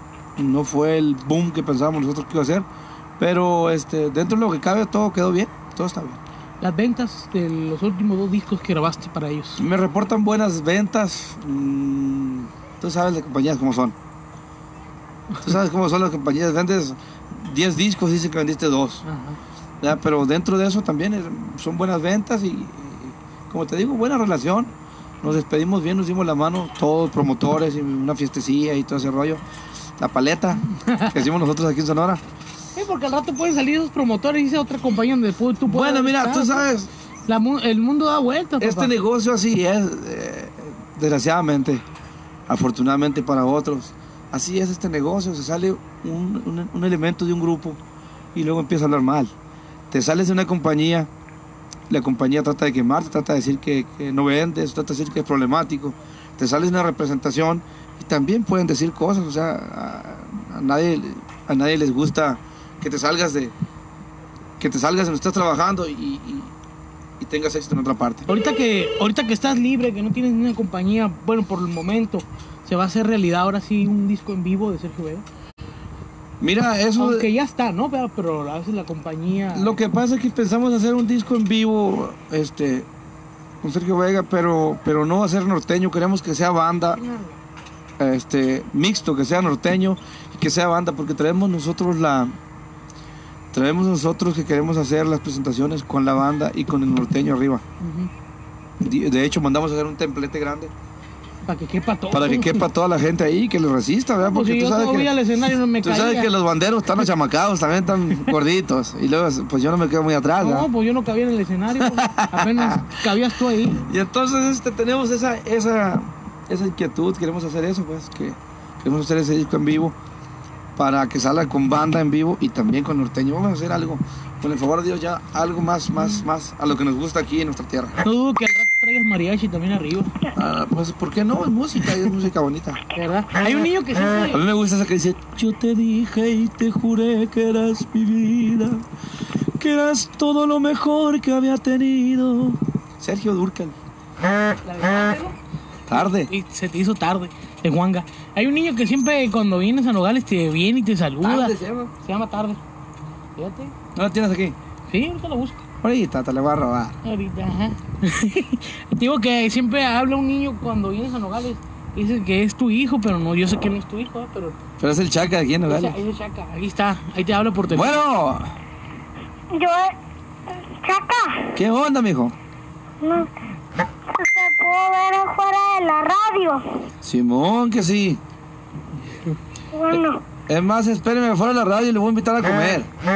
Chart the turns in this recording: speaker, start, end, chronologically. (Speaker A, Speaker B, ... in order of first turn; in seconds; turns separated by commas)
Speaker A: 0.4-2.6, Speaker A: 3.2-6.2, Speaker B: 6.6-9.6, Speaker A: 9.6-13.9, Speaker A: 15.4-19.0, Speaker B: 19.0-19.4, Speaker A: 19.8-29.4, Speaker A: 30.0-32.2, Speaker B: 32.7-36.6, Speaker A: 35.7-36.9, Speaker B: 37.2-38.9, Speaker A: 38.6-41.8, Speaker A: 42.5-47.8, Speaker A: 48.3-49.3, Speaker A: 49.9-51.1, Speaker A: 51.9-63.5, Speaker A: 64.6-66.5, Speaker A: 67.2-68.3, Speaker B: 68.3-75.2, Speaker A: 76.4-77.2, Speaker B: 77.0-79.8, Speaker A: 79.5-82.9, Speaker A: 83.6-87.0, Speaker B: 87.0-87.3, Speaker A: 88.0-92.3, Speaker A: 93.5-97.6, Speaker B: 97.8-98.1, Speaker A: 98.8-100.7, Speaker B: 101.5-102.7, Speaker A: 102.1-105.1, Speaker B: 104.2-106.3, Speaker A: 105.8-110.7, Speaker B: 110.4-113.9, Speaker A: 111.8-113.0, Speaker A: 113.8-119.9, Speaker A: 120.8-128.0, Speaker B: 126.0-126.2, Speaker B: 128.0-130.1, Speaker A: 130.3-132.8, Speaker B: 132.9-134.4, Speaker A: 134.3-138.8, Speaker A: 139.6-143.8, Speaker B: 144.6-145.4, Speaker A: 145.9-146.3, Speaker B: 145.9-152.6, Speaker A: 151.2-151.9, Speaker B: 153.3-153.7, Speaker A: 153.9-154.6, Speaker B: 154.9-155.6, Speaker A: 155.8-156.9, Speaker B: 157.0-164.6, Speaker A: 164.8-166.0, Speaker B: 165.7-168.0, Speaker A: 167.7-168.6, Speaker C: 169.5-169.9, Speaker C: 170.5-171.6, Speaker A: 171.5-172.3, Speaker C: 173.0-173.3, Speaker C: 174.1-176.8, Speaker A: 177.0-178.2, Speaker C: 179.7-180.2, Speaker A: 179.9-182.9